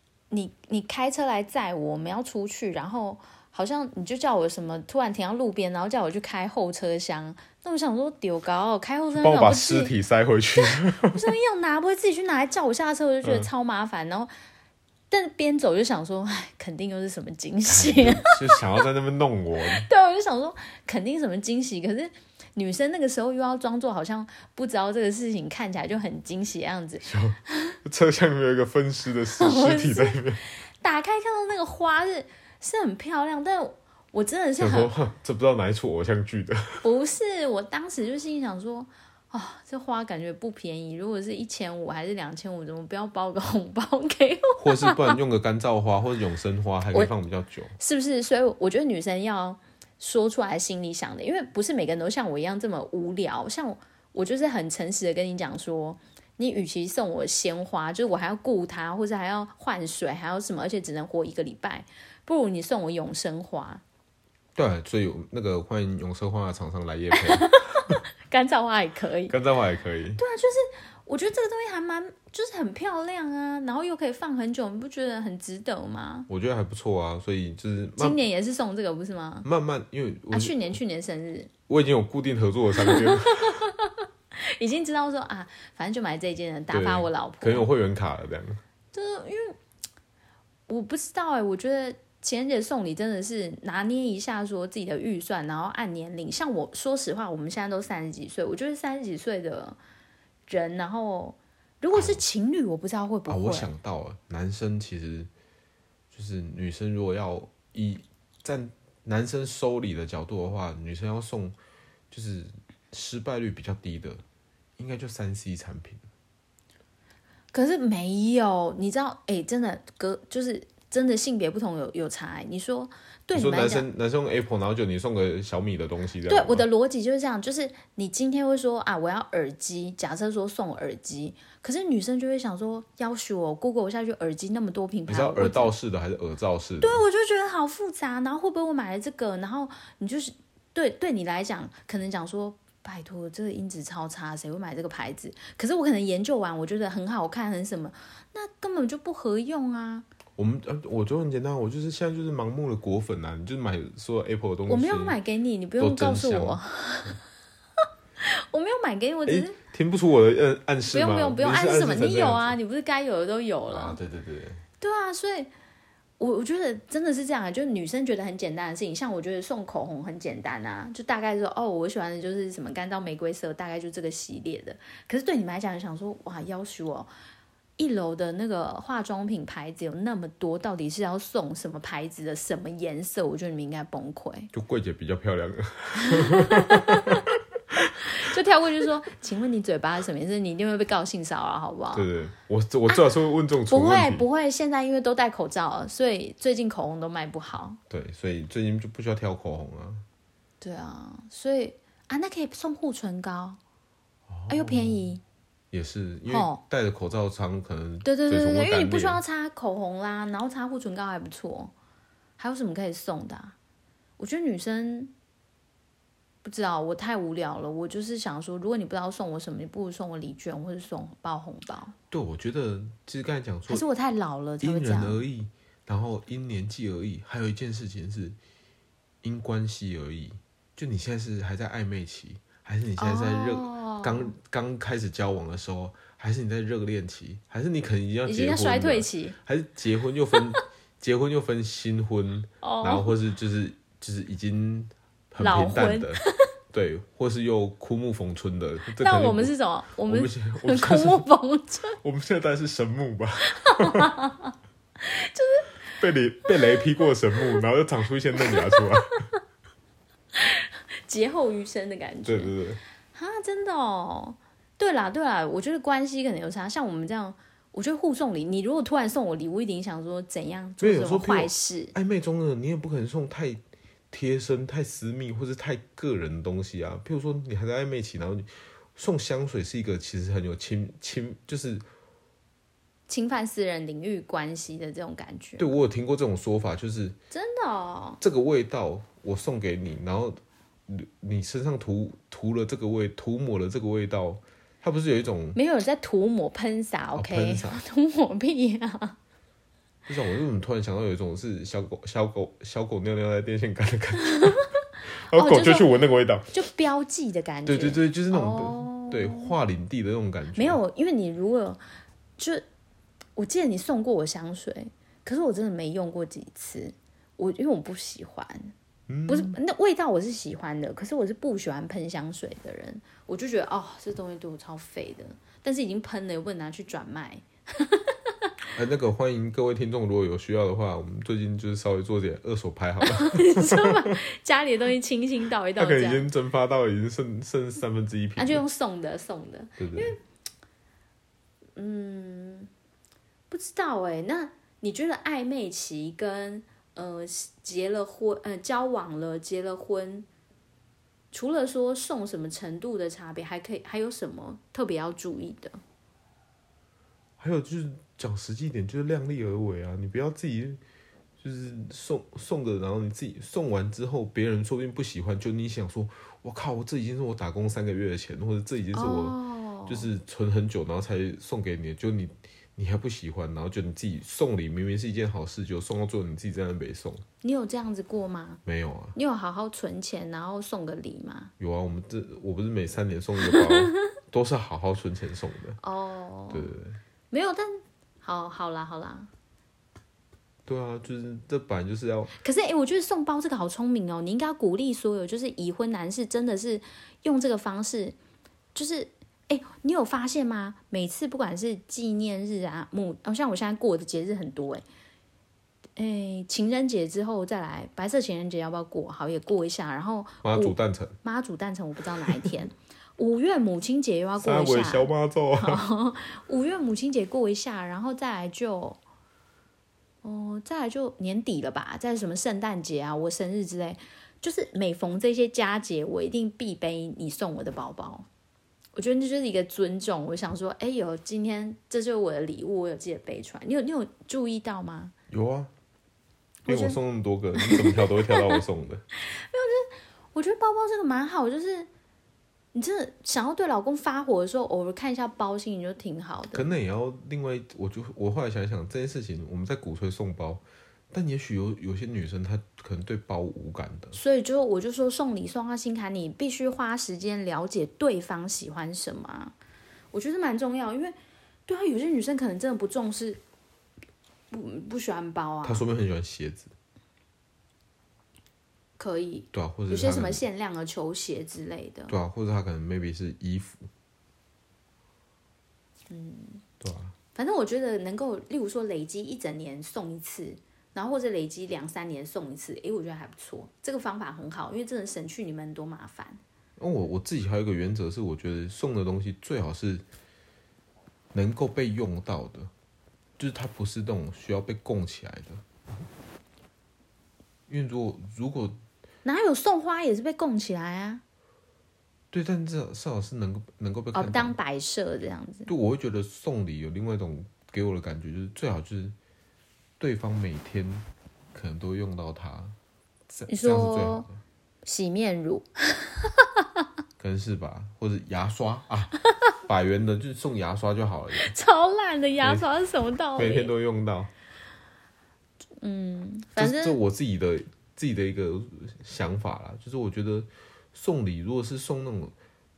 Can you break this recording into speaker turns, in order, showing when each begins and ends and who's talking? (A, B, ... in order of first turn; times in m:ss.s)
0:00.3-0:09.9 A
0:09.1-0:11.2 B
0:11.1-0:14.3 A
0:13.2-0:13.5 B
0:15.1-0:18.5 A
0:17.7-0:19.9 B
0:19.8-0:27.1 A
0:27.0-0:30.4 B
0:29.4-0:30.2 A
0:30.8-0:34.9 A
0:34.6-0:36.8 B
0:36.8-0:45.2 A
0:44.6-0:47.7 B
0:47.8-1:03.8 A
1:04.6-1:08.0 B
1:07.1-1:09.4 A
1:09.3-1:10.2 B
1:10.2-1:16.3 A
1:16.3-1:18.2 B
1:18.0-1:19.5 A
1:19.4-1:20.8 B
1:20.3-1:21.5 A
1:21.7-1:23.6 B
1:22.8-1:27.7 A
1:26.7-1:28.6 B
1:28.9-1:29.6 A
1:30.7-1:39.8 A
1:40.5-1:43.7 A
1:41.9-1:42.2 B
1:43.3-1:45.3 B
1:46.1-1:51.6 B
1:52.1-1:54.2 B
1:54.8-1:56.0 B
1:57.5-2:03.9 A
2:03.3-2:06.6 B
2:06.3-2:15.7 A
2:15.1-2:17.0 B
2:16.8-2:30.1 A
2:30.4-2:35.2 B
2:34.7-2:37.2 A
2:35.8-2:36.6 B
2:38.2-2:39.6 A
2:39.3-2:42.6 B
2:40.9-2:44.0 A
2:43.7-2:44.6 B
2:44.8-2:45.5 A
2:46.2-2:57.1 A
2:57.8-3:04.5 A
3:04.5-3:07.9 B
3:06.0-3:07.2 A
3:08.0-3:12.1 A
3:11.9-3:14.2 B
3:13.7-3:17.8 A
3:17.9-3:20.0 B
3:20.6-3:23.6 A
3:24.3-3:25.1 B
3:24.5-3:25.2 A
3:25.7-3:29.2 B
3:26.3-3:26.6 A
3:28.0-3:31.7 A
3:32.4-3:33.6 A
3:34.2-3:35.1 A
3:36.4-3:42.0 A
3:42.1-3:43.9 B
3:43.7-3:45.2 A
3:44.6-3:48.4 B
3:49.2-4:09.5 B
3:53.0-3:54.3 A
3:58.3-3:59.4 A
4:02.6-4:03.1 A
4:05.4-4:06.3 A
4:09.0-4:12.0 A
4:10.1-4:11.2 B
4:12.0-4:14.1 B
4:13.6-4:15.7 A
4:16.0-4:19.2 B
4:18.4-4:18.8 A
4:20.4-4:22.5 A
4:22.2-4:22.8 B
4:23.1-4:31.9 A
4:30.8-4:41.8 B
4:43.1-4:45.7 A
4:45.6-4:47.2 B
4:47.3-4:48.2 A
4:48.2-4:55.6 B
4:55.6-4:59.2 A
4:57.2-4:57.8 B
5:00.1-5:04.7 B
5:04.3-5:04.6 A
5:05.3-5:06.6 B
5:05.3-5:05.9 A
5:06.5-5:09.5 A
5:07.7-5:10.8 B
5:10.6-5:11.8 A
5:12.4-5:12.6 A
5:13.4-5:18.7 A
5:19.1-5:19.6 B
5:19.3-5:28.3 A
5:28.8-5:34.2 B
5:33.1-5:36.3 A
5:35.8-5:38.6 B
5:38.4-5:40.2 A
5:39.8-5:40.2 B
5:41.8-5:42.7 A
5:43.5-5:50.3 A
5:51.3-5:55.8 A
5:57.4-6:00.8 B
6:01.4-6:17.2 B
6:09.0-6:10.1 A
6:17.4-6:18.6 A
6:18.7-6:19.2 B
6:19.2-6:21.5 A
6:21.6-6:25.8 B
6:23.6-6:23.9 A
6:25.8-6:26.7 A
6:26.5-6:27.0 B
6:27.3-6:29.3 A
6:30.7-6:32.3 B
6:32.4-6:38.2 A
6:38.8-6:44.8 A
6:46.0-6:59.0 A
6:50.4-6:51.2 B
6:54.4-6:55.8 B
7:00.2-7:08.3 A
7:09.0-7:15.1 A
7:15.3-7:15.7 B
7:16.7-7:17.0 A
7:16.7-7:19.0 B
7:17.6-7:18.6 A
7:19.3-7:21.9 A
7:22.7-7:26.7 A
7:26.5-7:34.2 B
7:34.1-7:39.5 A
7:40.1-7:41.2 A
7:41.7-7:43.4 A
7:44.5-7:45.8 A
7:45.6-7:46.7 B
7:49.0-7:52.2 A
7:49.5-7:50.4 B
7:52.1-7:53.9 B
7:56.1-7:56.6 A
7:56.8-7:57.2 B
7:57.4-8:06.4 A
8:06.8-8:10.0 B
8:11.3-8:12.7 B
8:13.4-8:15.6 B
8:17.7-8:18.8 B
8:19.2-8:21.2 A
8:22.3-8:24.6 B
8:24.1-8:25.7 A
8:25.7-8:29.2 B
8:30.0-8:32.8 B
8:33.3-8:34.4 B
8:33.5-8:34.3 A
8:34.8-8:36.8 A
8:37.2-8:41.5 B
8:41.4-8:43.7 A
8:43.4-8:44.3 B
8:45.8-8:47.0 A
8:46.6-8:52.3 B